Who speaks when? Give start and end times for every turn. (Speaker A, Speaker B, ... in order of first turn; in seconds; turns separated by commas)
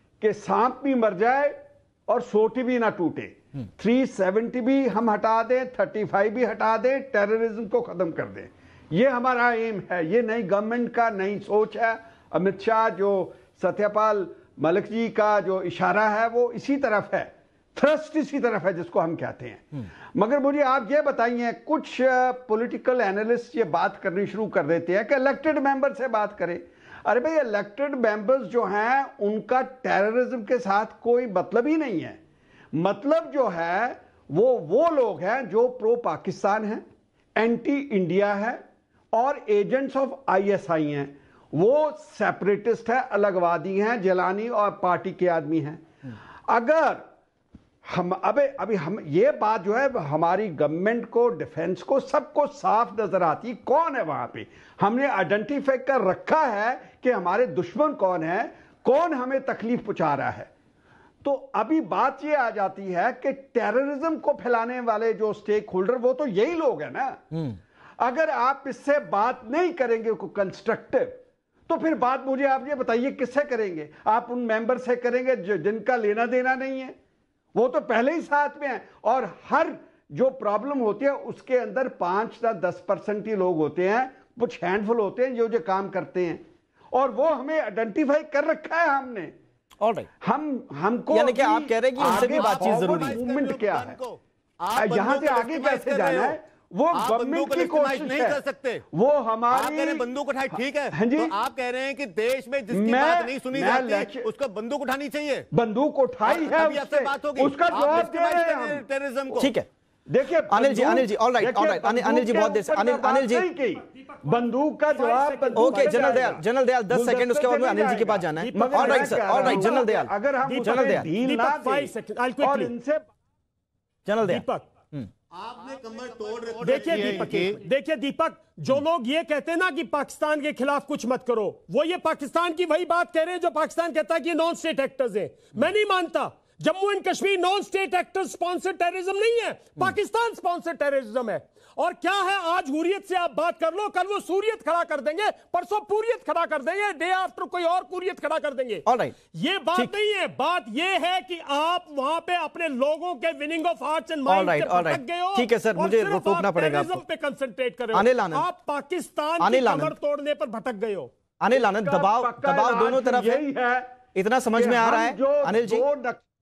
Speaker A: 0.2-32.2, Speaker A: 32.7-36.8, Speaker A: 37.4-38.6, Speaker A: 39.1-45.8, Speaker A: 46.5-47.0, Speaker A: 47.9-60.5, Speaker A: 61.2-67.2, Speaker A: 68.0-77.0, Speaker A: 77.5-89.3, Speaker B: 89.8-90.1, Speaker A: 90.2-94.0, Speaker B: 91.1-93.2, Speaker C: 92.0-96.4, Speaker A: 94.7-98.4, Speaker C: 96.9-98.8, Speaker A: 98.9-101.3, Speaker C: 99.5-105.5, Speaker A: 102.7-104.3, Speaker A: 105.5-109.5, Speaker C: 106.2-109.5, Speaker B: 109.4-109.7, Speaker A: 110.1-123.0, Speaker B: 110.5-113.5, Speaker D: 114.2-116.4, Speaker B: 115.5-121.1, Speaker D: 118.4-119.9, Speaker D: 120.4-122.7, Speaker B: 124.0-125.1, Speaker D: 124.2-124.7, Speaker C: 125.3-127.6, Speaker D: 126.6-161.1, Speaker B: 148.9-149.2, Speaker B: 154.2-157.0, Speaker B: 157.9-158.5, Speaker B: 159.4-159.9, Speaker B: 161.4-163.4, Speaker A: 161.5-164.0, Speaker B: 164.1-165.8, Speaker A: 164.5-166.2